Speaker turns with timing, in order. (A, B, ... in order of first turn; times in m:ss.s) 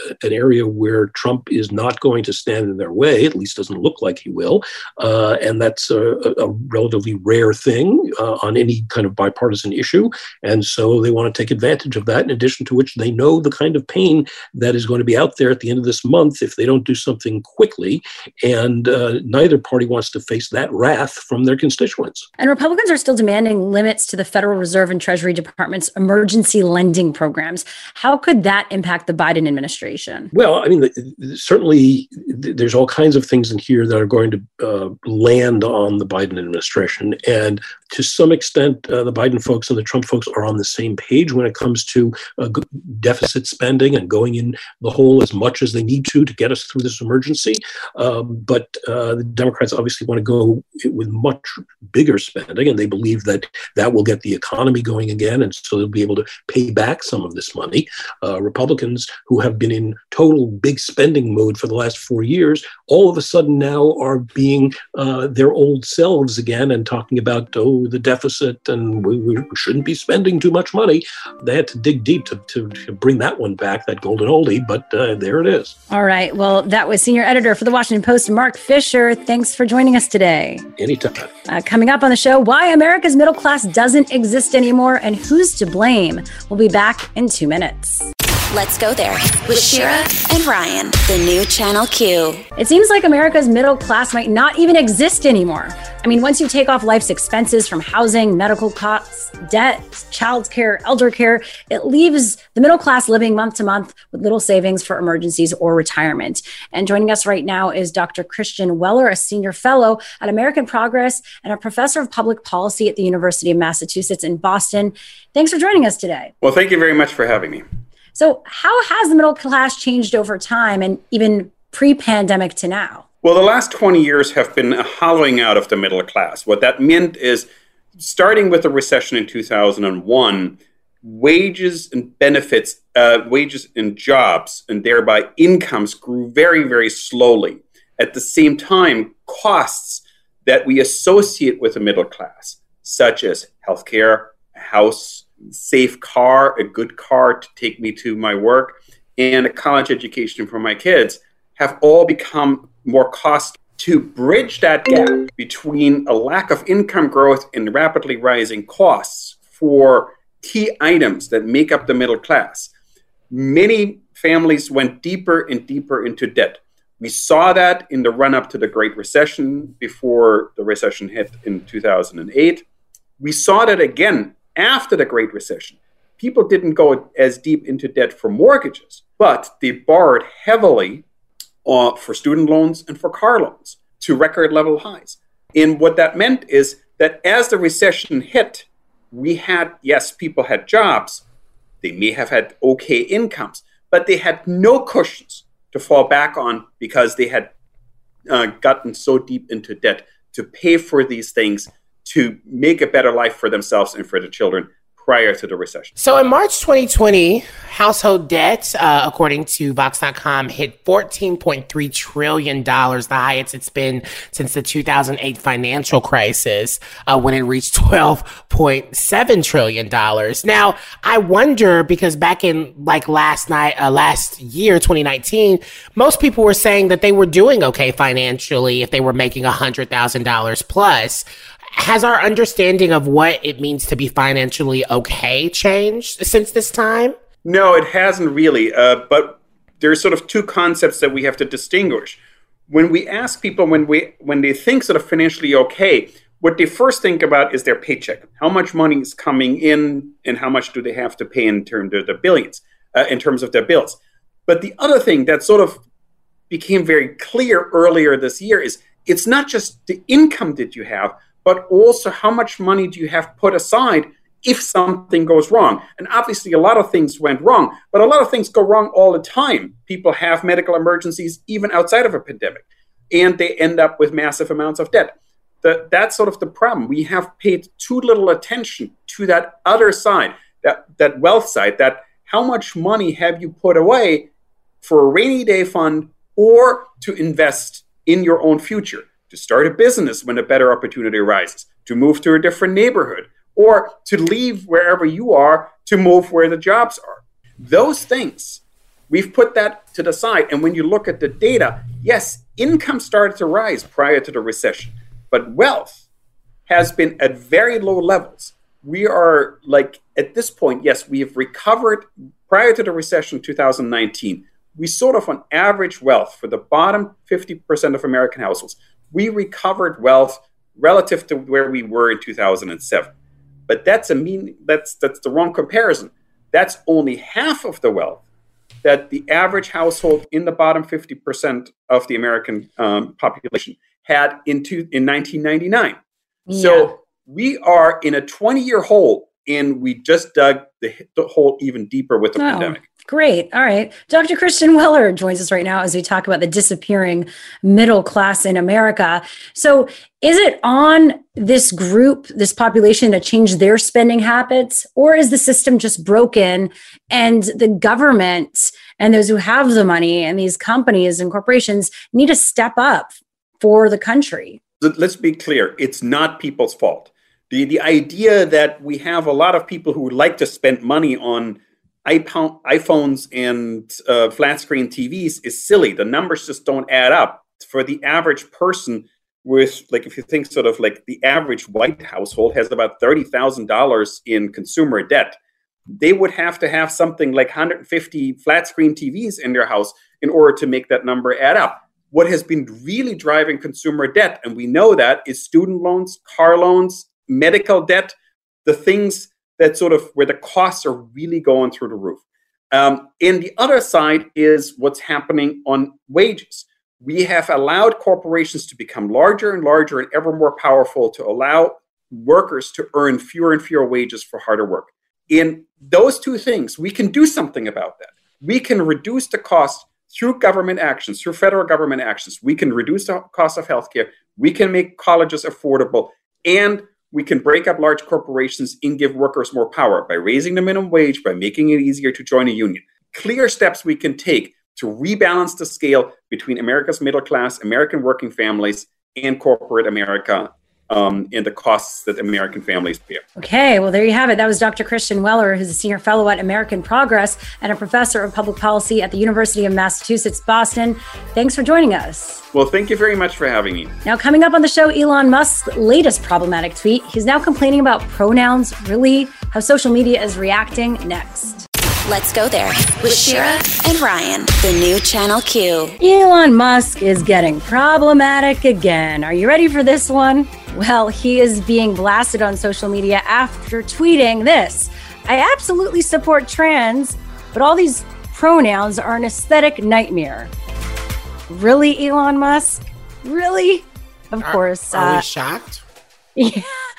0:00.2-0:22.3 A
0:22.4-0:30.3 B
0:30.3-1:15.7 A
1:15.9-1:20.7 B
1:20.8-1:21.3 A
1:21.4-1:28.1 B
1:28.5-1:32.4 C
1:32.6-1:56.3 B
1:56.4-1:57.6 D
1:58.1-2:03.0 B
2:03.2-2:07.5 D
2:08.0-2:42.7 D
2:43.3-2:52.6 D
2:53.2-3:01.0 D
3:01.6-3:11.2 D
3:11.8-3:17.5 D
3:18.3-3:25.9 D
3:26.0-3:57.1 E
3:57.4-4:02.2 D
4:02.7-4:15.8 D
4:16.5-4:44.3 D
4:44.8-5:06.0 D
5:06.7-5:23.1 D
5:23.7-5:28.2 D
5:28.8-5:36.0 D
5:36.5-5:36.9 B
5:36.5-5:42.8 D
5:42.4-6:04.6 B
6:04.8-6:25.4 D
6:26.0-7:23.2 D
7:23.4-7:32.4 B
7:32.5-7:33.9 D
7:34.0-7:41.6 B
7:42.0-7:46.0 C
7:46.0-8:00.5 B
8:01.5-8:05.2 B
8:04.4-8:05.8 E
8:06.4-8:06.7 B